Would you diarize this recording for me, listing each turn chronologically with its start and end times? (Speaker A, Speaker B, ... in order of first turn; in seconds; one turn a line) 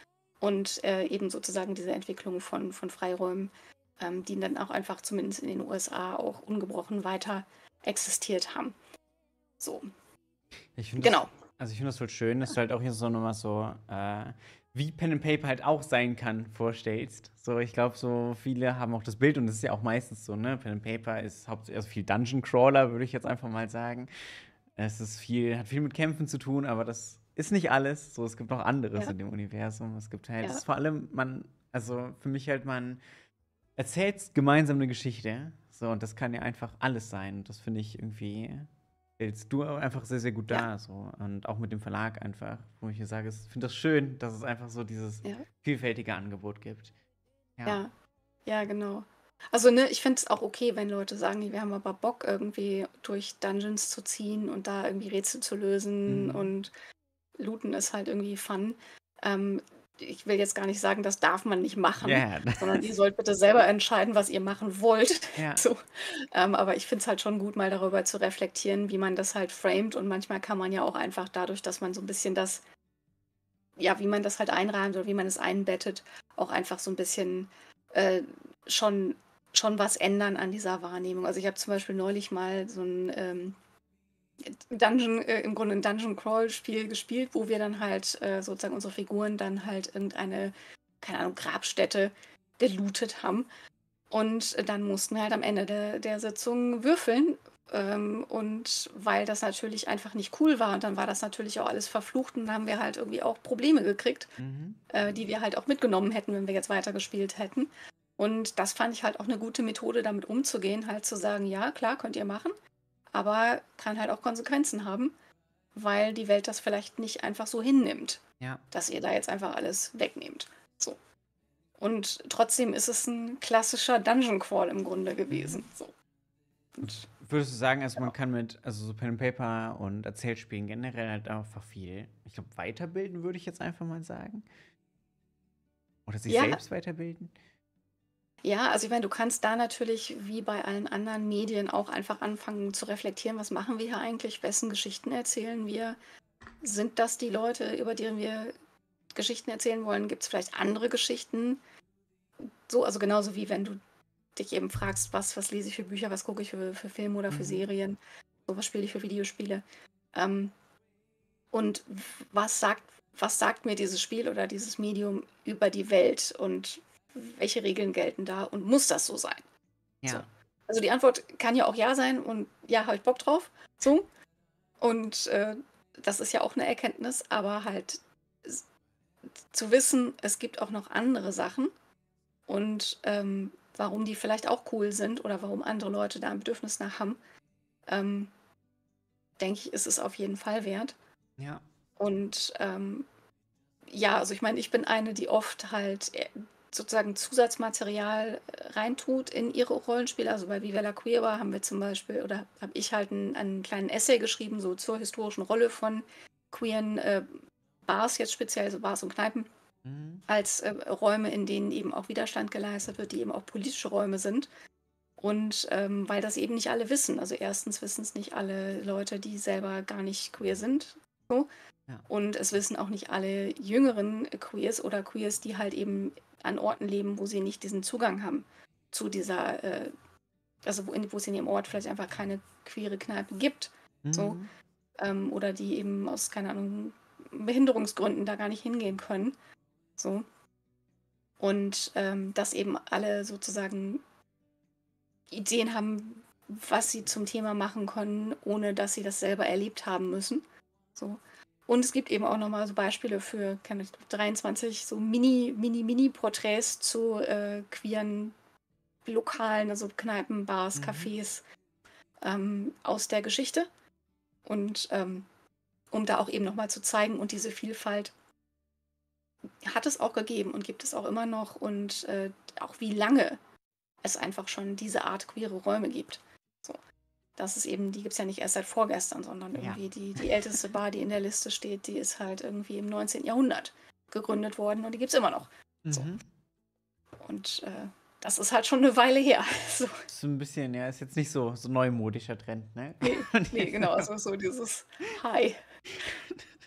Speaker A: 0.4-8.8
Speaker A: 9.6-9.8
Speaker B: 10.8-24.1
Speaker A: 11.0-11.3
Speaker B: 24.8-33.0
Speaker B: 33.8-46.9
Speaker A: 47.7-47.9
Speaker A: 48.5-56.7
Speaker B: 56.1-56.5
Speaker A: 57.4-72.6
Speaker B: 62.0-62.8
Speaker B: 65.4-65.7
Speaker A: 73.8-83.6
Speaker A: 84.4-93.5
Speaker A: 94.1-104.3
Speaker B: 104.4-104.8
Speaker A: 104.9-112.5
Speaker A: 113.1-115.1
Speaker A: 115.7-121.0
Speaker A: 121.8-125.9
Speaker B: 125.3-125.6
Speaker A: 126.8-127.0
Speaker B: 126.8-134.4
Speaker B: 136.1-137.3
Speaker A: 136.3-136.6
Speaker A: 138.4-146.0
Speaker A: 146.6-148.5
Speaker A: 149.1-151.6
Speaker A: 152.4-153.8
Speaker A: 154.3-160.5
Speaker B: 157.3-157.6
Speaker A: 161.5-169.4
Speaker A: 170.1-174.1
Speaker A: 174.8-178.6
Speaker A: 179.5-181.7
Speaker A: 182.5-187.2
Speaker A: 187.9-188.3
Speaker A: 189.4-190.9
Speaker B: 191.4-191.6
Speaker A: 192.0-193.1
Speaker A: 193.9-209.5
Speaker B: 209.8-210.2
Speaker A: 210.3-214.5
Speaker A: 215.2-221.5
Speaker A: 222.1-229.9
Speaker A: 230.6-234.4
Speaker B: 234.0-234.5
Speaker A: 235.0-239.3
Speaker A: 240.0-240.2
Speaker A: 241.4-244.0
Speaker A: 245.3-250.4
Speaker A: 250.9-258.4
Speaker A: 259.0-261.4
Speaker B: 260.8-261.1
Speaker A: 262.2-263.7
Speaker A: 264.4-265.3
Speaker A: 265.9-268.1
Speaker A: 269.6-273.4
Speaker A: 274.0-276.8
Speaker A: 277.4-286.1
Speaker B: 279.6-280.4
Speaker B: 285.8-286.2
Speaker A: 287.2-290.0
Speaker B: 290.1-294.1
Speaker A: 293.0-295.6